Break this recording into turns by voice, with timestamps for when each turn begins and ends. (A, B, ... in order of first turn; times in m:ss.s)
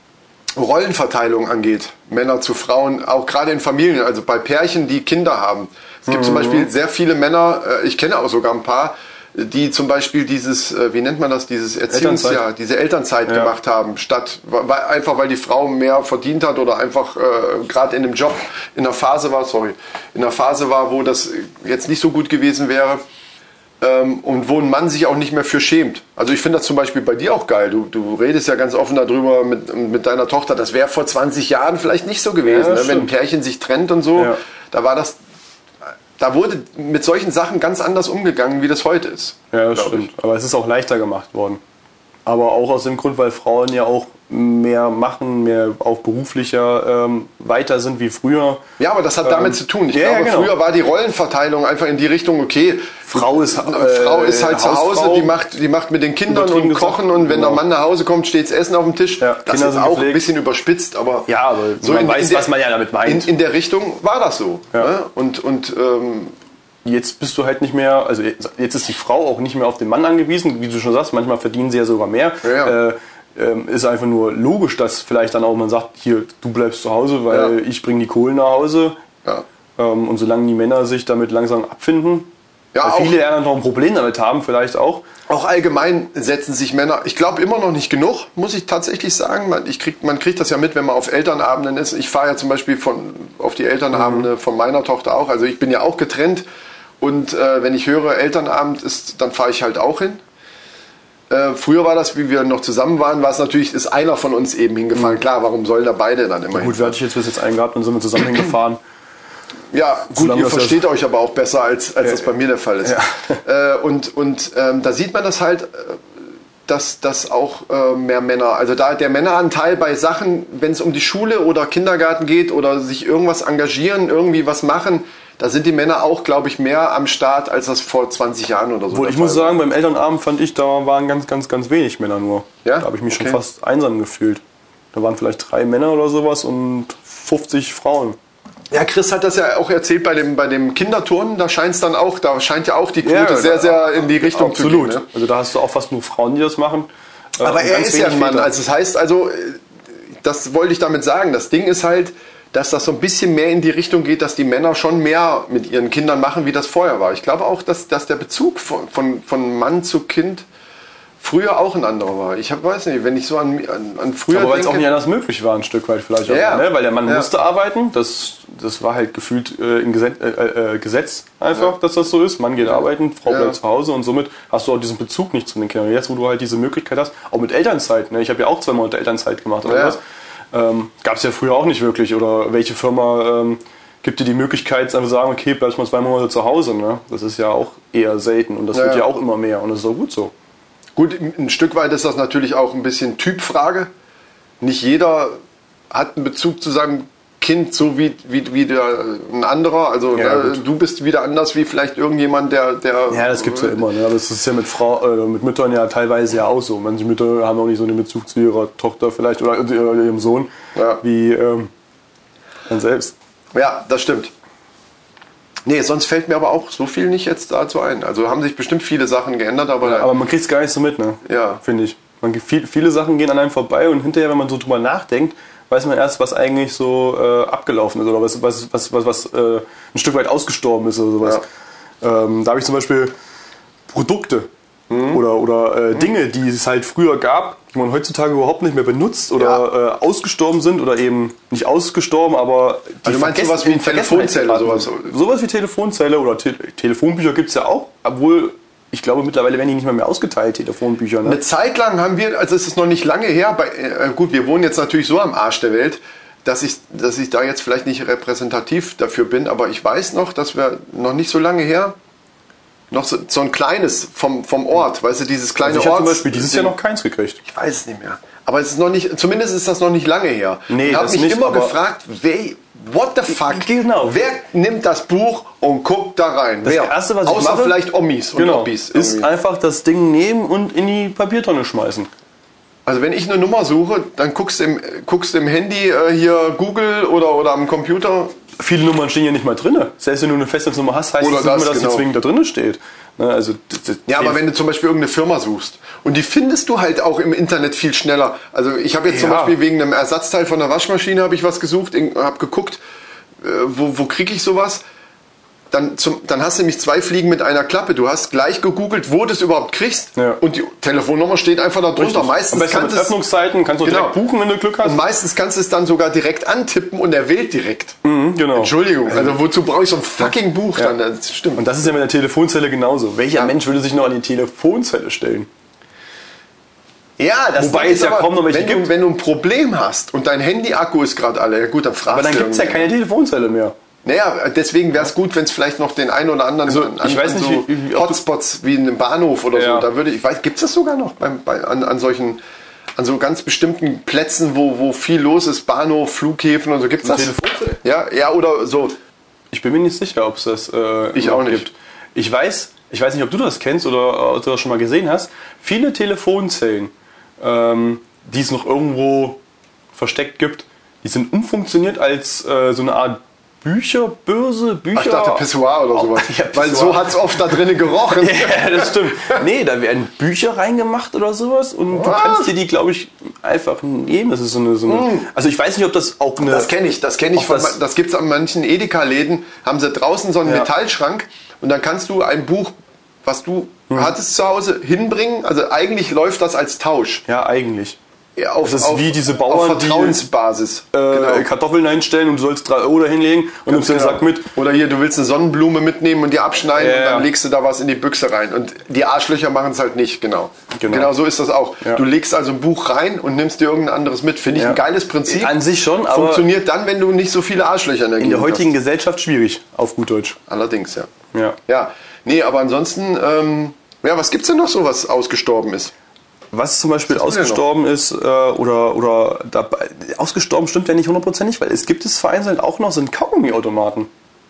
0:00.6-0:23.0 A
0:06.1-0:06.7 B
0:11.9-0:12.4 B
0:13.2-0:13.5 B
0:23.8-0:35.2 A
0:32.4-0:33.1 B
0:34.1-0:34.4 B
0:36.2-0:40.1 A
0:39.5-0:41.6 B
0:42.2-0:48.6 B
0:48.8-1:01.3 A
0:49.2-0:50.5 B
0:53.1-0:55.3 B
0:56.3-0:57.6 B
0:59.2-1:00.3 B
1:01.3-1:03.3 B
1:01.8-1:06.3 A
1:06.8-1:19.0 B
1:12.4-1:12.8 A
1:17.3-1:17.5 A
1:19.8-1:22.3 B
1:22.7-1:23.1 A
1:22.8-1:25.0 B
1:25.3-1:36.4 A
1:33.9-1:34.3 B
1:37.0-1:40.2 A
1:41.3-1:47.0 A
1:46.5-1:48.8 B
1:49.7-1:56.0 A
1:50.1-1:50.8 B
1:52.8-1:53.4 B
1:56.6-2:09.6 A
2:08.9-2:14.4 B
2:12.6-2:13.4 A
2:14.9-2:18.2 B
2:18.7-2:25.0 A
2:23.0-2:28.5 B
2:27.4-2:29.6 A
2:30.1-2:40.4 A
2:41.2-2:44.9 A
2:44.3-3:00.0 B
2:46.3-2:47.3 A
2:52.7-2:53.6 A
2:59.6-3:00.0 A
3:00.5-3:10.3 B
3:08.7-3:09.1 A
3:11.0-3:13.9 A
3:14.6-3:15.4 A
3:15.9-3:23.8 A
3:20.1-3:20.6 B
3:23.1-3:31.7 B
3:30.7-3:31.0 A
3:32.7-3:33.1 B
3:33.5-3:34.3 A
3:35.6-3:40.1 A
3:39.8-3:51.4 B
3:41.2-3:41.6 A
3:52.0-3:53.1 B
3:53.9-3:54.5 B
3:54.9-3:55.2 A
3:55.1-4:11.4 B
3:59.4-3:59.6 A
4:03.0-4:05.1 A
4:11.2-4:22.0 A
4:22.9-4:26.7 A
4:25.6-4:27.4 B
4:27.4-4:39.3 A
4:30.7-4:31.8 B
4:33.3-4:34.2 B
4:36.6-4:37.8 B
4:38.3-4:42.1 B
4:42.8-4:48.4 A
4:48.6-4:54.4 B
4:51.2-4:52.1 A
4:54.1-5:02.8 A
4:59.1-4:59.6 B
5:03.4-5:04.8 A
5:05.7-5:13.2 A
5:10.2-5:10.4 B
5:12.0-5:15.0 B
5:13.8-5:14.2 A
5:14.8-5:18.0 A
5:18.0-5:19.4 B
5:18.5-5:21.9 A
5:21.6-5:25.5 B
5:27.2-5:32.9 A
5:27.6-5:28.9 B
5:32.1-5:33.7 B
5:34.0-5:42.4 A
5:36.6-5:38.2 B
5:39.5-5:39.9 B
5:43.0-5:49.0 A
5:47.0-5:47.8 B
5:49.5-5:59.4 B
5:51.1-5:51.7 A
5:59.9-6:16.7 B
6:04.9-6:09.4 A
6:11.9-6:12.5 A
6:14.9-6:15.3 A
6:16.4-6:27.2 A
6:17.3-6:17.8 B
6:27.2-6:28.0 B
6:28.4-6:31.5 A
6:28.6-6:30.2 B
6:30.9-6:34.5 B
6:33.7-6:48.7 A
6:36.7-6:37.3 B
6:40.7-6:41.1 B
6:44.5-6:46.5 B
6:48.2-6:50.4 B
6:50.5-6:51.1 A
6:51.3-6:51.6 B
6:51.7-6:55.9 A
6:56.5-7:04.1 B
6:57.1-6:57.6 A